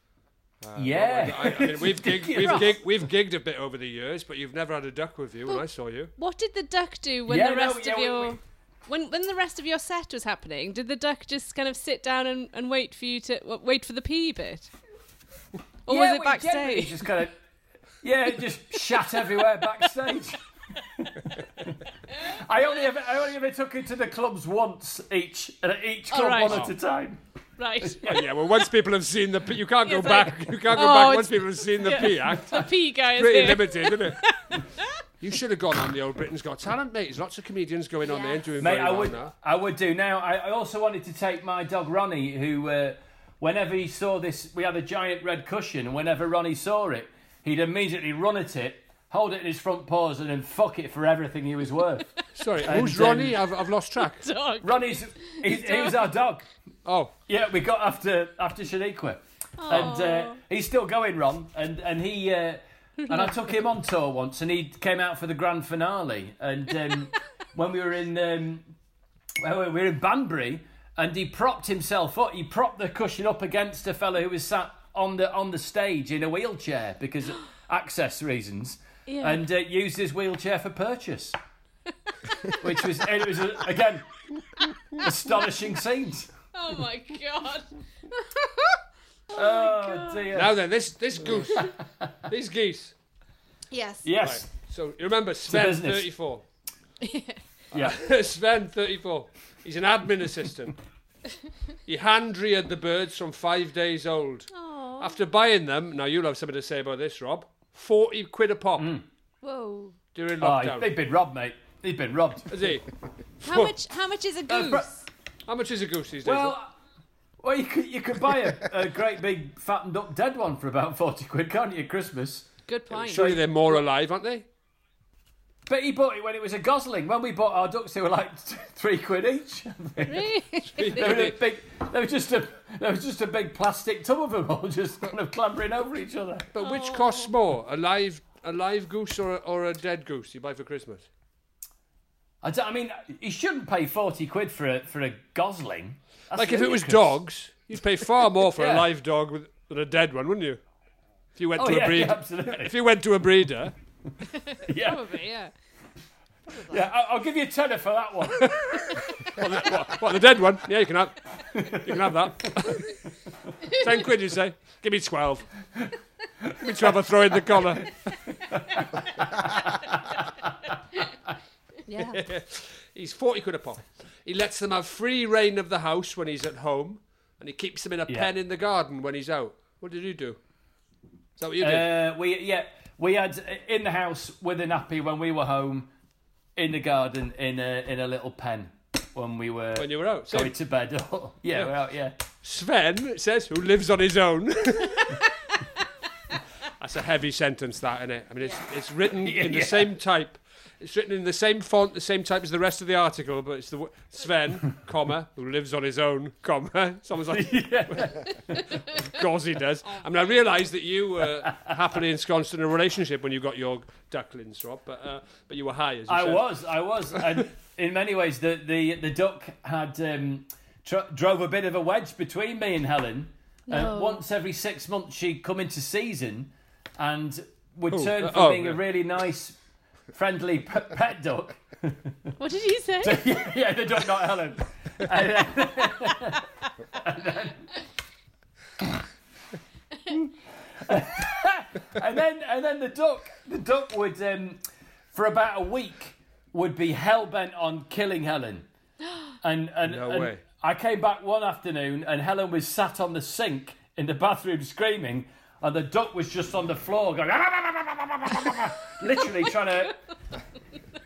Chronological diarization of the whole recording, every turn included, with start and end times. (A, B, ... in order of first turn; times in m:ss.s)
0:00.6-0:06.1 A
0:00.7-0:02.8 B
0:02.4-0:02.7 C
0:06.2-0:14.7 C
0:07.3-0:08.4 B
0:15.9-0:17.1 C
0:15.9-0:17.4 B
0:18.0-0:20.4 B
0:21.0-0:27.2 B
0:26.1-0:26.7 C
0:26.4-0:26.7 A
0:27.6-0:28.2 C
0:27.8-0:28.2 B
0:28.0-0:34.2 A
0:29.8-0:34.9 C
0:35.2-0:39.3 A
0:38.0-0:38.4 C
0:38.6-0:52.1 B
0:52.3-0:54.3 A
0:52.6-0:53.4 B
0:54.0-0:56.1 C
0:54.6-0:56.5 B
0:56.8-0:57.1 A
0:57.3-1:08.6 B
0:59.6-1:00.4 C
1:03.0-1:03.5 C
1:09.4-1:21.4 B
1:19.1-1:19.4 C
1:22.6-1:24.1 B
1:25.0-1:26.3 B
1:26.5-1:28.8 C
1:29.3-1:30.2 C
1:29.3-1:30.6 B
1:30.3-1:32.9 A
1:31.5-1:32.1 B
1:33.7-1:34.0 C
1:34.0-1:34.5 B
1:34.2-1:36.4 A
1:35.5-1:36.1 B
1:37.0-1:37.4 C
1:37.7-1:40.8 A
1:37.7-1:38.0 B
1:41.8-1:48.9 A
1:44.5-1:45.2 C
1:48.8-1:49.0 B
1:49.4-1:50.0 C
1:50.1-1:50.9 A
1:50.4-1:52.5 B
1:52.5-1:52.9 A
1:53.4-1:53.7 A
1:53.4-1:55.1 C
1:54.5-1:54.8 B
1:55.5-1:56.6 A
1:56.2-1:56.7 B
1:57.4-2:02.5 B
2:02.7-2:03.5 C
2:02.9-2:04.4 A
2:05.7-2:10.3 B
2:10.0-2:11.2 C
2:10.8-2:11.4 A
2:10.9-2:16.5 B
2:16.5-2:21.1 A
2:16.6-2:17.3 C
2:22.4-2:27.2 B
2:26.3-2:30.6 A
2:28.5-2:28.9 B
2:31.4-2:33.7 A
2:31.6-2:32.7 B
2:34.6-2:35.0 B
2:34.8-2:35.5 C
2:36.7-2:38.5 B
2:38.4-2:43.0 A
2:41.5-2:42.5 B
2:43.6-2:45.7 A
2:46.6-2:48.1 A
2:48.4-2:50.5 B
2:51.9-2:52.2 C
2:52.1-3:00.4 A
3:01.4-3:01.9 A
3:01.6-3:05.9 B
3:06.6-3:12.2 B
3:09.8-3:10.5 A
3:12.4-3:15.3 A
3:16.8-3:36.6 A
3:19.2-3:19.9 B
3:27.3-3:28.7 B
3:29.9-3:30.4 C
3:36.1-3:49.6 B
3:43.7-3:44.2 C
3:47.9-3:48.8 A
3:50.1-3:52.3 B
3:52.4-3:53.3 C
3:53.0-3:57.7 B
4:00.8-4:08.6 B
4:09.4-4:20.0 B
4:09.8-4:10.4 A